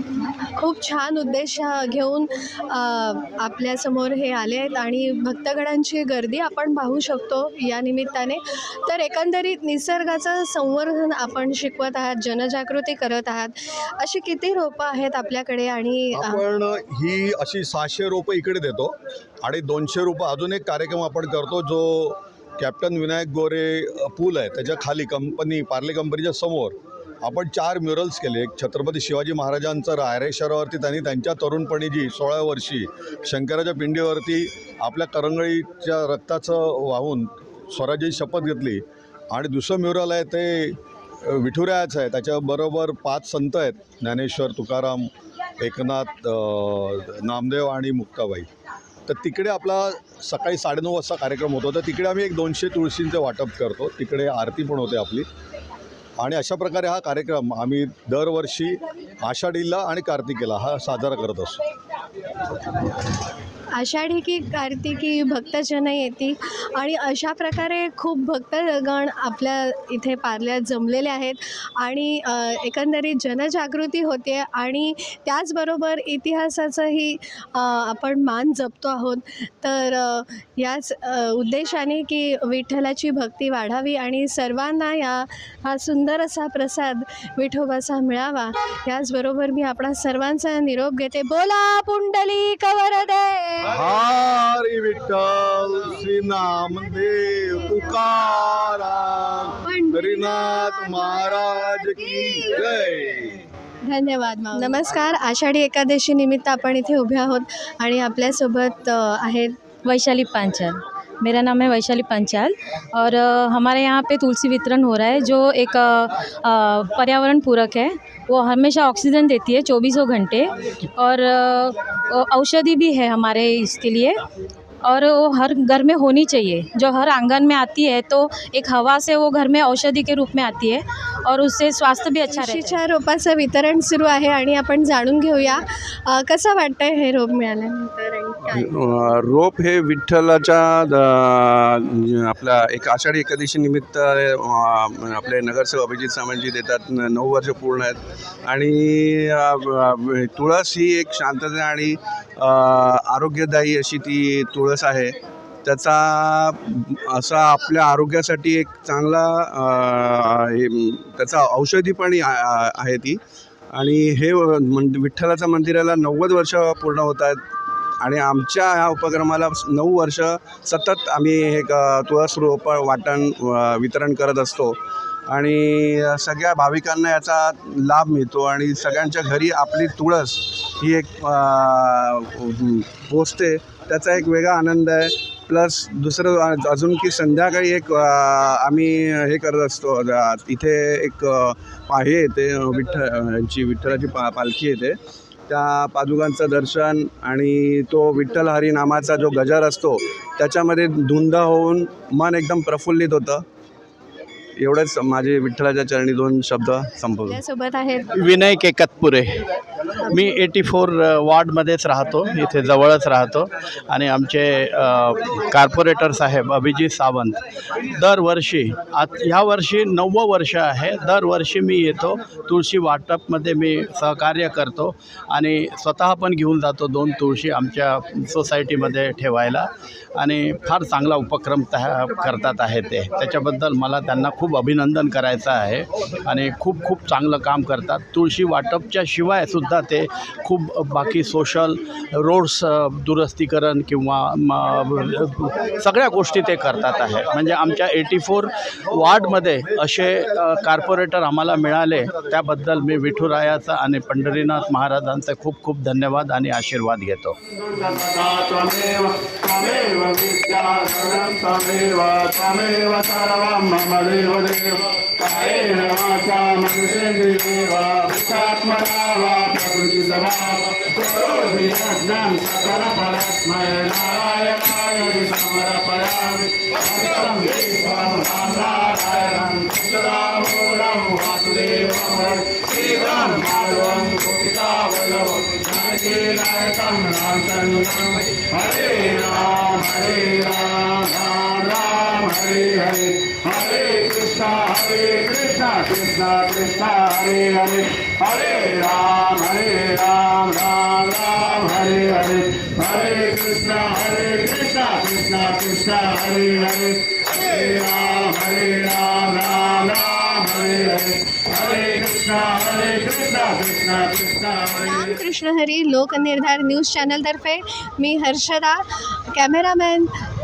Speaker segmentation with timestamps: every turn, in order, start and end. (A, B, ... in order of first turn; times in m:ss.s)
0:00.6-0:16.4 A
0:16.2-0:48.5 B
0:49.1-0:55.3 B
0:56.2-1:01.6 B
1:03.7-1:33.7 A
1:33.7-1:43.4 B
1:39.6-1:41.0 A
1:43.9-1:49.6 A
1:49.8-2:04.2 C
2:04.8-2:12.8 C
2:12.3-2:18.7 A
2:18.5-2:43.2 D
2:43.7-2:47.4 D
2:48.0-2:54.8 D
2:55.3-3:15.0 D
3:15.5-3:23.4 D
3:24.6-3:27.4 D
3:27.3-3:28.1 A
3:28.1-4:17.4 E
4:17.5-5:15.2 F
5:14.7-5:20.2 A